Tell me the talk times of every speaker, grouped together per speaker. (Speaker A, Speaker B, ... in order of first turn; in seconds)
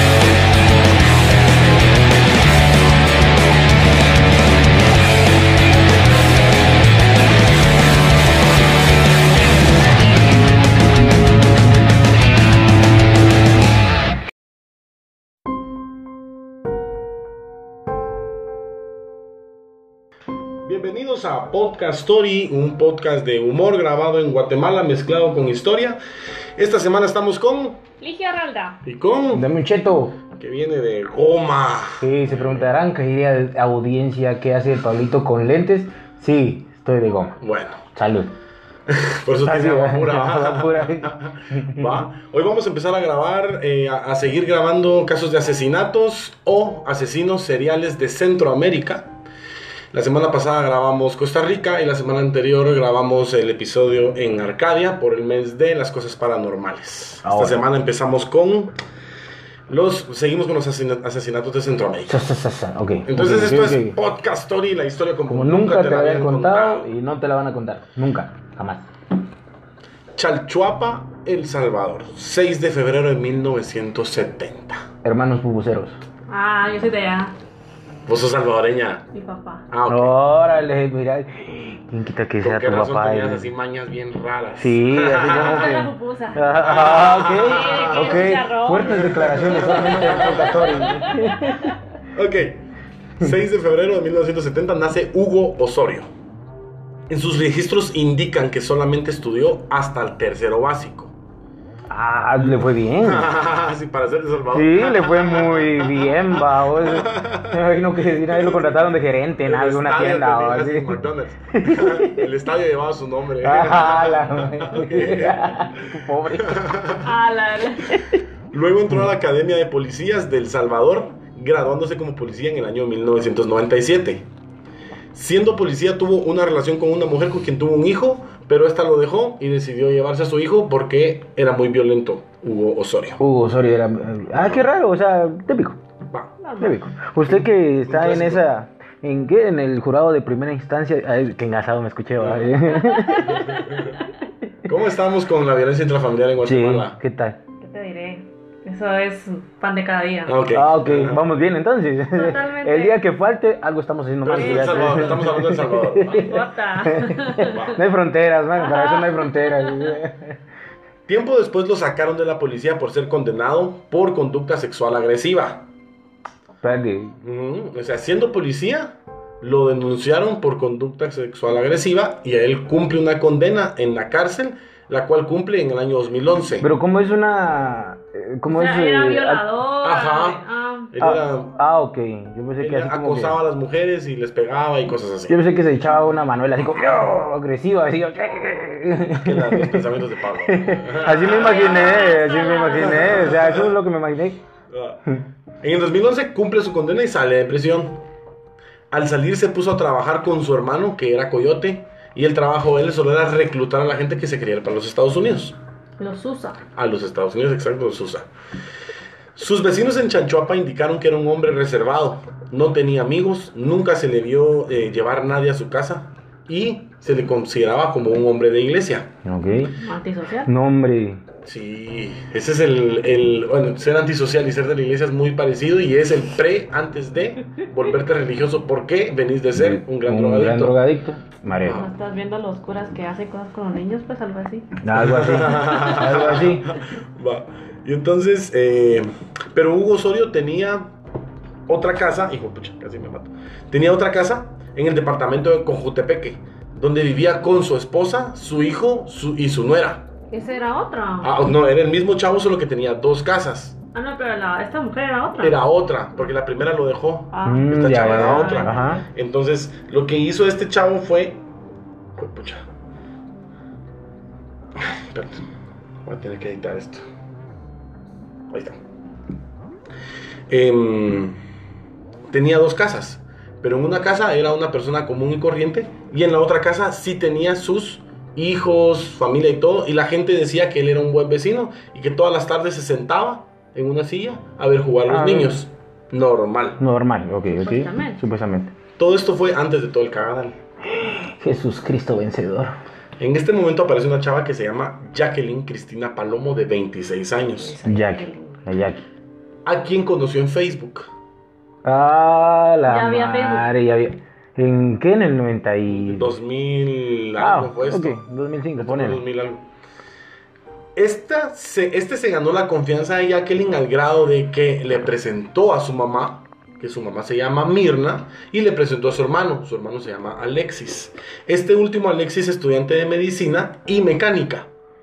Speaker A: 20.6-26.0, 26.6-27.8, 28.8-29.5, 30.3-32.7, 37.4-37.8, 38.9-49.1, 49.9-58.8, 59.7-62.2, 63.0-66.9, 70.1-74.8, 78.0-79.1, 79.7-80.2, 82.4-85.7, 86.6-91.0, 92.1-92.6, 93.2-96.1, 97.1-101.2, 102.4-107.6, 108.1-108.9, 109.4-115.5, 116.4-117.1, 118.5-124.2, 125.1-133.2, 134.3-134.7, 136.1-136.3, 137.3-138.4, 142.2-142.5, 143.3-144.0, 144.6-147.0, 150.3-151.2, 154.2-156.3, 157.5-157.8, 161.1-165.7, 167.2-176.7, 179.8-181.6, 182.6-185.4, 189.2-193.7, 194.7-195.0, 195.6-198.0, 198.9-205.6, 206.7-208.3, 209.3-219.1, 221.4-230.8, 231.6-231.9, 234.9-240.9, 241.7-250.1, 251.2-253.8, 255.4-261.4, 262.2-262.6, 264.8-265.4, 266.0-267.0, 268.5-268.8, 270.5-271.4, 272.3-286.8, 289.0-290.6, 293.2-297.8, 299.6-301.1, 305.9-308.2, 308.8-309.6, 310.9-324.7
Speaker B: 28.0-28.8, 76.3-77.3, 79.1-79.6, 85.1-86.9, 87.5-91.8, 117.0-118.0, 136.4-136.8, 142.8-143.7, 147.6-150.4, 152.1-153.0, 154.3-155.4, 156.0-157.7, 158.6-160.0, 178.5-180.9, 191.2-193.3, 206.0-206.6, 219.8-220.5, 231.7-234.7, 235.6-236.0, 250.3-251.3, 253.9-255.6, 257.3-259.0, 287.4-288.2, 297.6-298.6, 302.9-303.7
Speaker C: 29.3-30.2, 32.0-37.4, 37.9-38.3, 39.4-42.0, 57.2-57.6, 62.1-64.0, 65.3-68.9, 75.0-76.0, 79.9-83.5, 84.5-91.8, 101.9-103.3, 104.5-111.0, 111.6-112.3, 113.4-116.7, 133.2-135.8, 136.6-143.6, 146.4-147.4, 150.5-160.4, 166.6-167.2, 176.6-179.5, 181.0-183.4, 185.3-189.8, 190.4-194.4, 219.2-219.7, 220.4-221.2, 229.5-231.8, 234.8-236.7, 257.4-259.0, 285.1-285.6, 286.8-288.7, 290.9-292.7, 297.8-299.0, 301.8-306.3, 307.4-309.2